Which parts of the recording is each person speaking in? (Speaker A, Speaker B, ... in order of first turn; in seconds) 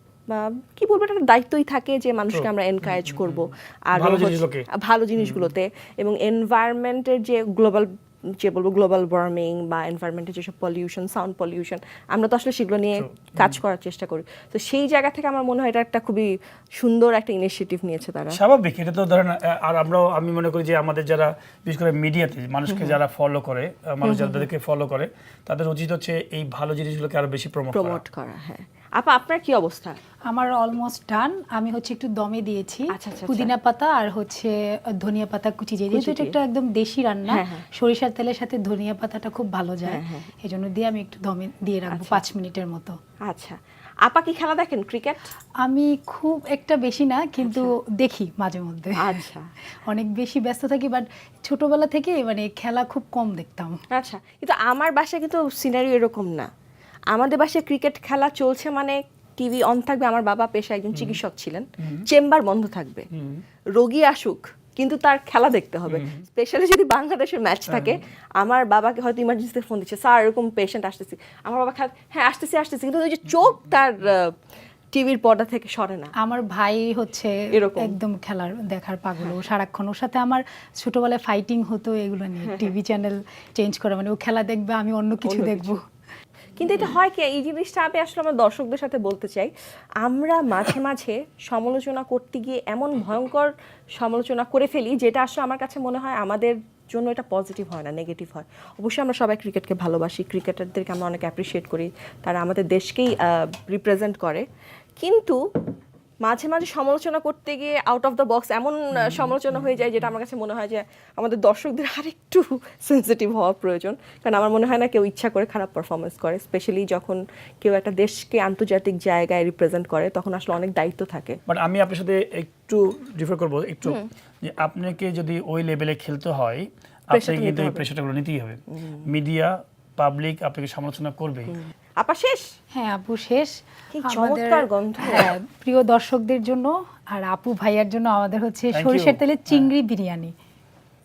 Speaker A: 0.3-18.4, 22.7-23.0, 24.0-24.5, 27.7-30.0, 32.9-33.5, 35.9-36.4, 37.3-37.6, 39.9-40.3, 41.9-42.2, 43.3-45.3, 47.4-47.7, 49.0-49.5, 53.9-56.5, 57.1-63.0, 63.8-74.3, 74.9-76.1, 77.5-78.0, 82.4-82.7, 85.2-85.8, 86.6-89.5, 90.0-104.4, 105.0-105.4, 106.2-121.4, 127.1-127.8, 132.0-132.4, 133.9-135.3
Speaker B: 2.3-3.4, 3.9-4.7, 5.2-5.5, 13.0-13.6, 18.3-28.0, 60.9-61.2, 63.1-63.4, 65.9-66.2, 67.7-68.0, 109.0-109.3, 121.5-131.5, 138.7-139.7
Speaker C: 30.3-43.0, 45.6-49.2, 49.9-53.7, 76.2-85.8, 132.7-133.5, 134.0-140.3